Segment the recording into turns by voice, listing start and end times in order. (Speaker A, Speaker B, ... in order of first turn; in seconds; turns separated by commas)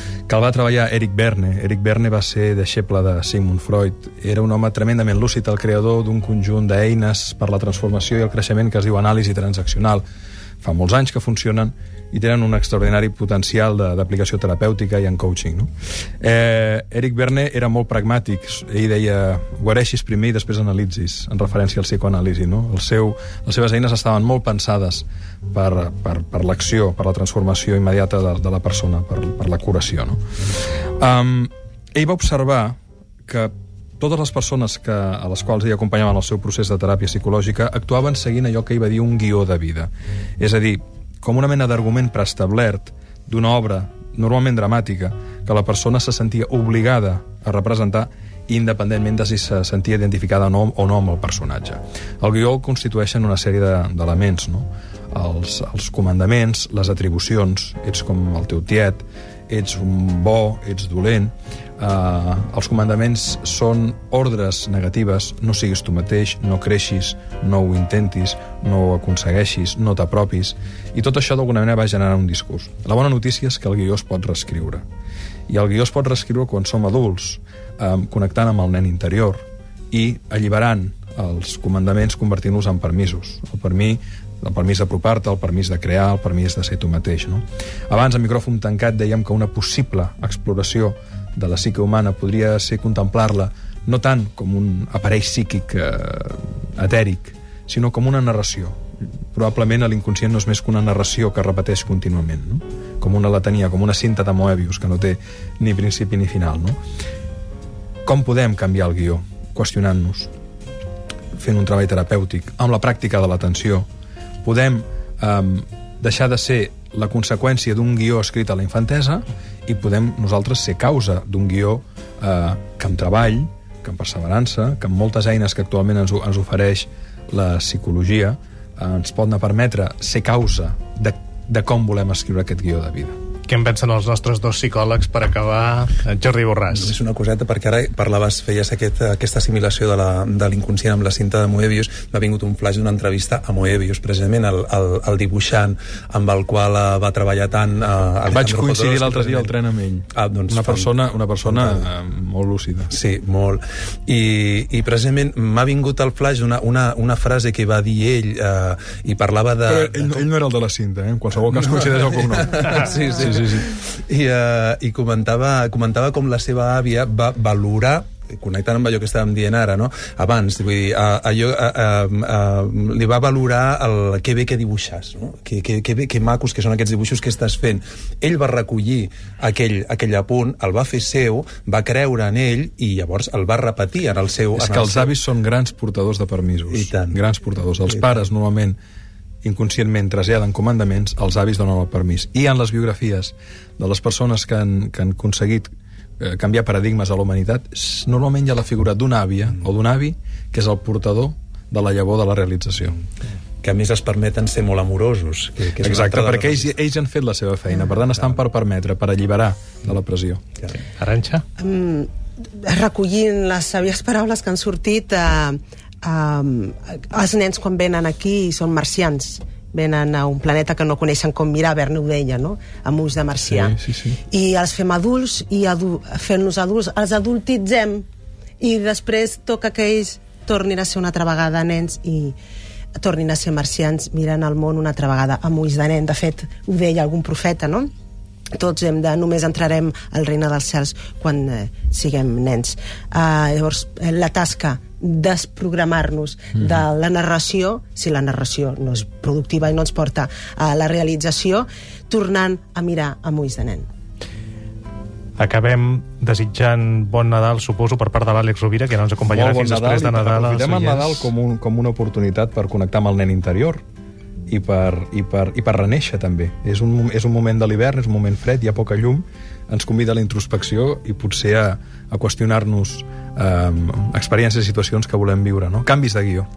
Speaker A: 0.3-10.0, Speaker A: 10.6-30.2, Speaker A: 31.0-74.8, Speaker A: 75.5-98.8, Speaker A: 99.3-106.8, Speaker A: 108.1-110.3, Speaker A: 111.3-113.9, Speaker A: 114.4-133.2, Speaker B: 133.5-136.9, Speaker C: 136.7-149.5, Speaker A: 148.3-152.9, Speaker C: 150.2-151.8, Speaker C: 152.9-160.2, Speaker A: 159.7-163.7, Speaker C: 162.1-185.1, Speaker A: 184.6-188.8, Speaker C: 186.7-187.2, Speaker A: 189.4-203.0, Speaker C: 203.6-206.7, Speaker A: 205.8-210.4, Speaker B: 211.0-211.4, Speaker D: 211.6-212.1, Speaker D: 212.6-228.1, Speaker A: 223.5-224.2, Speaker D: 228.6-232.3, Speaker D: 232.9-237.9, Speaker D: 238.6-253.9, Speaker B: 255.4-261.3, Speaker A: 259.2-263.8, Speaker A: 264.5-276.5